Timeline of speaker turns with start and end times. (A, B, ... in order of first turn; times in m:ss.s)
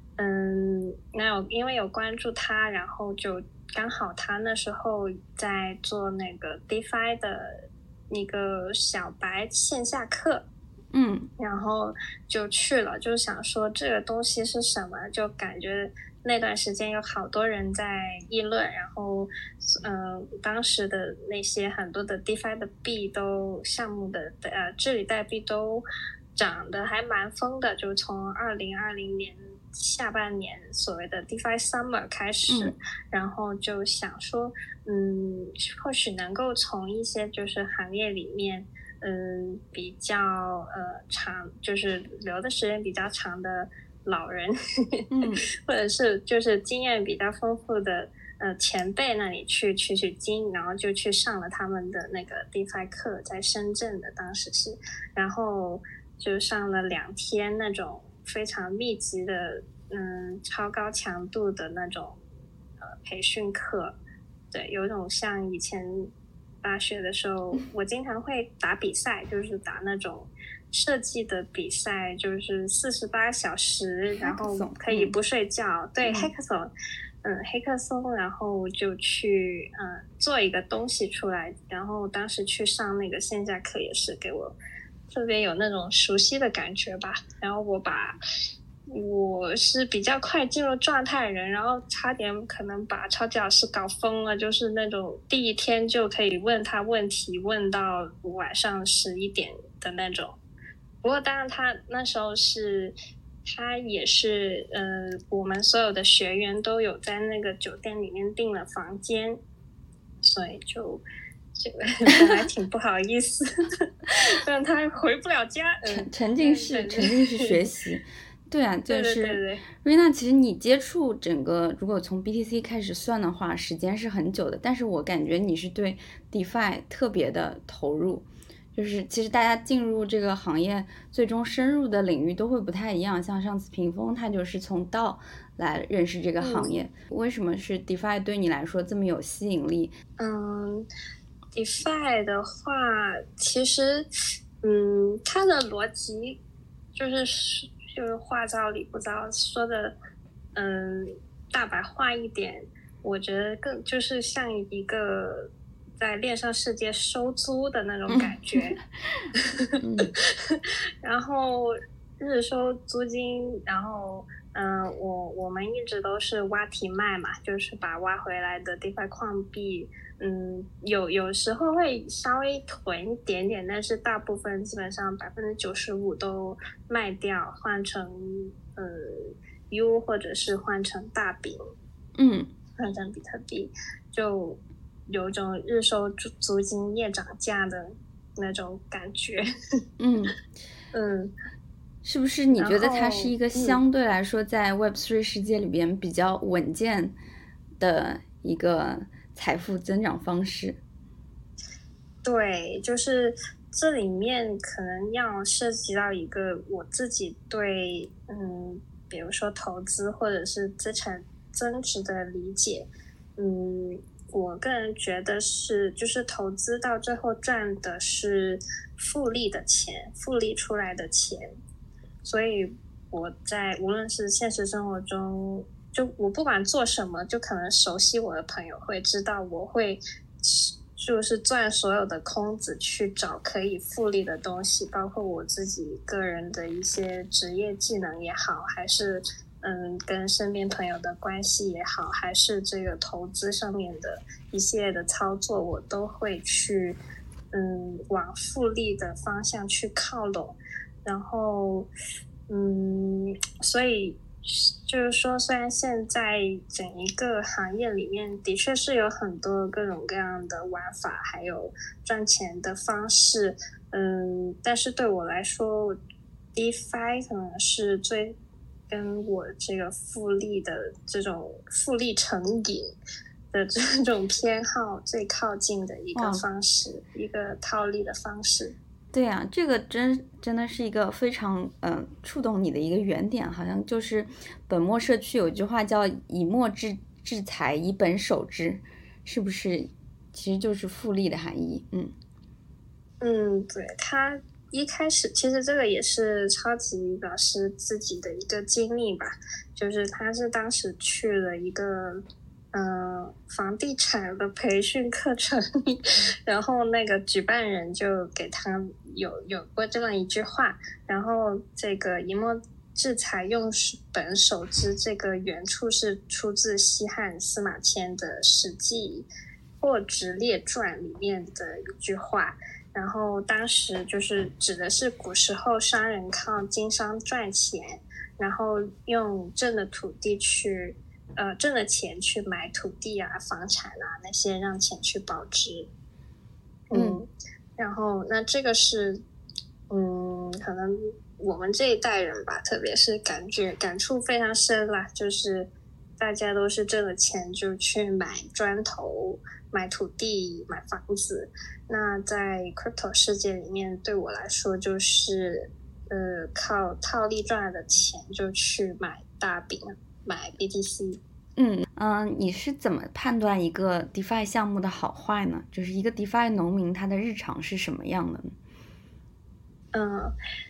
0:00.2-0:10.4 A
0:10.9-0:11.3 B
0:11.4-0:25.8 A
0:26.4-0:45.0 A
0:32.5-0:32.7 B
0:45.1-0:45.4 B
0:45.6-1:02.2 A
1:02.8-1:03.9 A
1:04.5-1:06.1 A
1:06.6-1:16.7 A
1:14.2-1:15.1 B
1:16.0-1:16.3 B
1:17.2-1:24.6 A
1:25.1-1:28.2 A
1:28.9-1:40.4 A
1:41.0-1:42.9 A
1:43.4-1:49.4 A
1:50.2-1:51.0 A
1:51.5-1:57.6 A
1:55.9-2:19.9 B
1:58.9-1:59.6 A
2:16.4-2:16.7 A
2:20.2-2:20.9 A
2:21.5-2:24.1 A
2:24.6-2:26.4 A
2:26.9-2:29.9 A
2:30.6-2:38.8 A
2:38.1-2:38.6 B
2:39.4-2:39.7 A
2:39.8-2:40.1 B
2:40.2-3:01.6 A
3:02.2-3:02.5 B
3:02.8-3:09.4 A
3:10.0-3:10.3 B
3:10.9-3:11.3 A
3:12.0-3:17.1 B
3:12.6-3:13.8 A
3:17.8-3:20.8 B
3:22.2-3:41.5 A
3:42.2-4:07.0 A
4:07.5-4:11.9 A
4:12.5-4:26.0 A
4:26.5-4:28.4 A
4:28.9-4:32.9 A
4:33.5-4:38.8 A
4:36.1-4:36.4 B
4:39.1-4:52.1 B
4:53.2-5:02.2 A
5:02.7-5:19.3 A
5:19.8-5:35.9 A
5:36.9-5:39.2 A
5:36.9-5:37.2 B
5:39.9-6:01.2 A
6:01.6-6:08.6 B
6:09.9-6:10.3 A